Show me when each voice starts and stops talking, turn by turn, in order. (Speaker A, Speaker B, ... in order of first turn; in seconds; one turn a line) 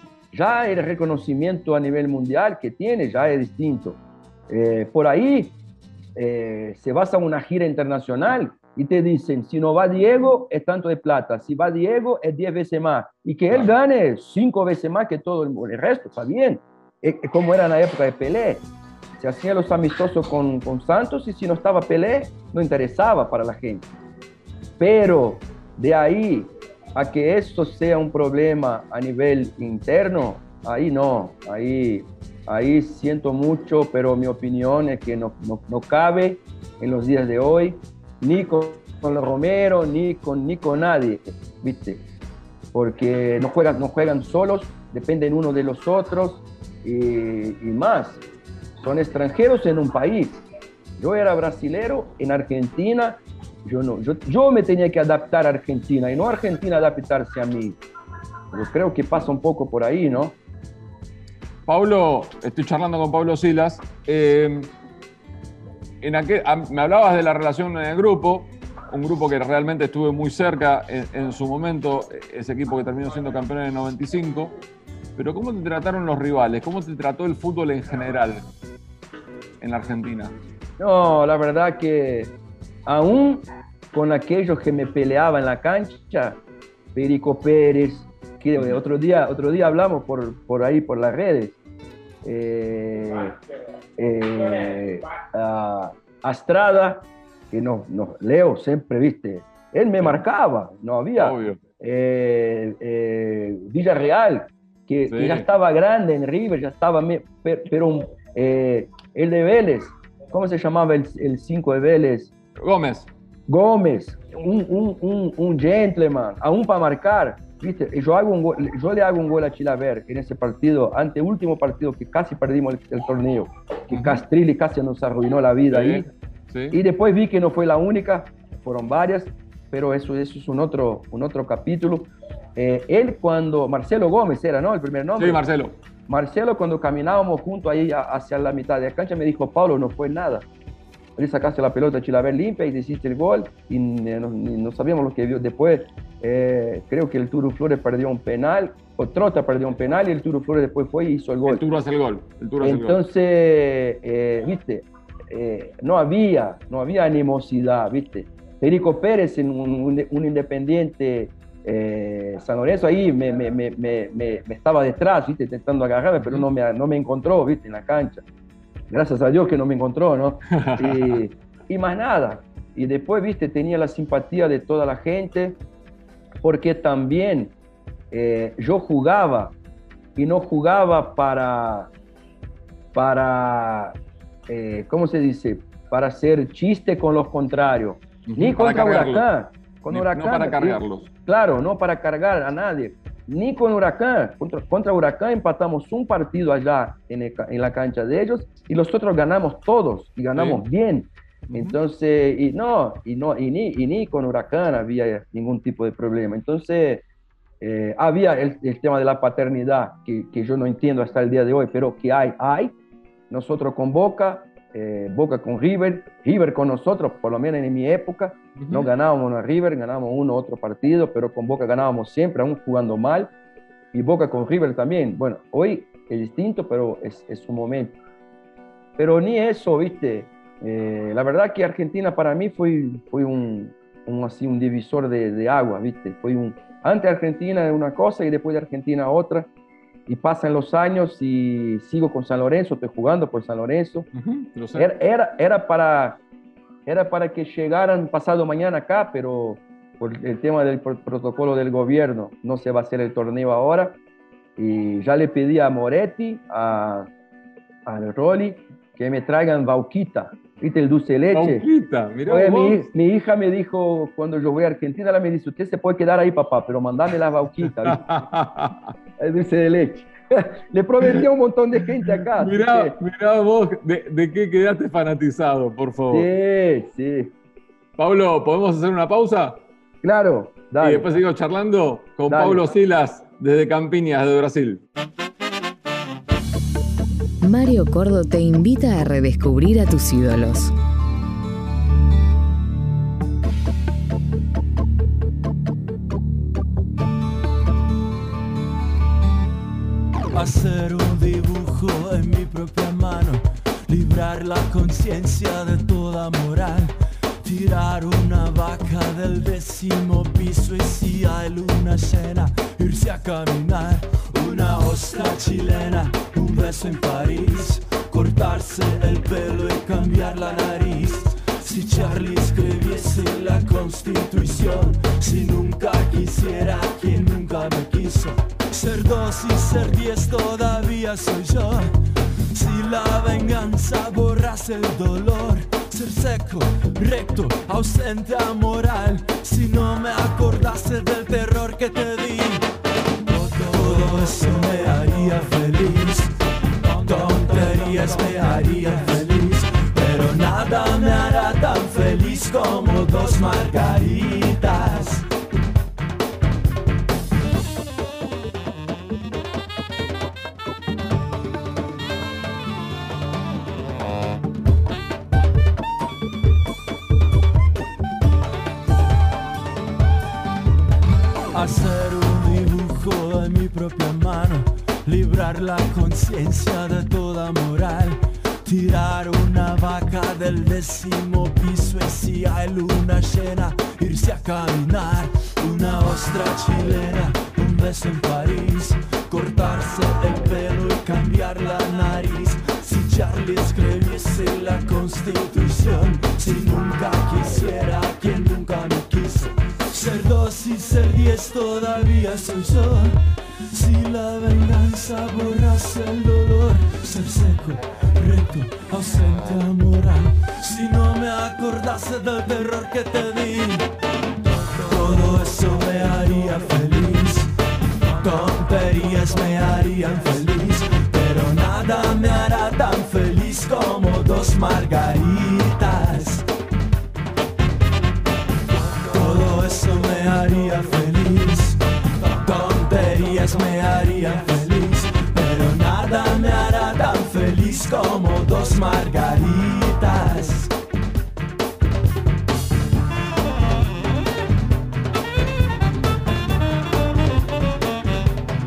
Speaker A: 0.3-5.5
Speaker A: 6.2-18.7
Speaker A: 19.2-23.9
Speaker A: 24.8-42.0
Speaker A: 42.7-48.2
Speaker A: 48.8-50.4
Speaker A: 51.0-57.8
Speaker A: 58.5-60.4
Speaker B: 61.7-64.7
Speaker B: 66.0-74.5
Speaker B: 75.2-78.4
Speaker B: 79.6-80.4
Speaker A: 80.8-82.3
Speaker A: 82.9-86.4
Speaker A: 87.0-91.6
Speaker A: 92.2-93.4
Speaker A: 94.0-112.3
Speaker B: 101.2-101.6
Speaker B: 105.1-105.5
Speaker B: 112.6-113.1
Speaker A: 113.5-126.1
Speaker B: 123.9-124.2
Speaker B: 125.7-126.8
Speaker A: 126.7-135.4
Speaker B: 135.2-135.8
Speaker A: 136.1-140.5
Speaker A: 141.2-151.6
Speaker B: 151.5-153.0
Speaker A: 152.6-168.2
Speaker A: 168.9-175.6
Speaker B: 170.5-171.2
Speaker A: 176.4-177.5
Speaker A: 178.1-179.6
Speaker A: 180.2-181.9
Speaker A: 182.9-184.0
Speaker A: 184.5-207.1
Speaker B: 188.3-189.3
Speaker B: 189.9-191.1
Speaker B: 200.3-200.6
Speaker B: 201.5-201.8
Speaker A: 207.6-212.8
Speaker A: 213.3-223.3
Speaker B: 218.6-218.9
Speaker A: 223.9-228.0
Speaker A: 229.0-239.5
Speaker A: 240.1-244.1
Speaker B: 244.1-244.9
Speaker A: 244.8-246.2
Speaker A: 246.9-254.0
Speaker A: 254.6-257.1
Speaker A: 257.9-261.7
Speaker B: 261.3-262.8
Speaker A: 262.3-268.1
Speaker B: 267.8-268.8
Speaker A: 269.2-273.0
Speaker B: 272.1-276.3
Speaker A: 276.1-277.3
Speaker B: 278.0-279.6
Speaker A: 280.0-281.1
Speaker B: 280.8-284.8
Speaker A: 282.3-282.6
Speaker C: 287.4-290.7
Speaker D: 300.3-342.7
Speaker D: 343.2-355.3
Speaker D: 371.5-426.5
Speaker D: 428.7-440.7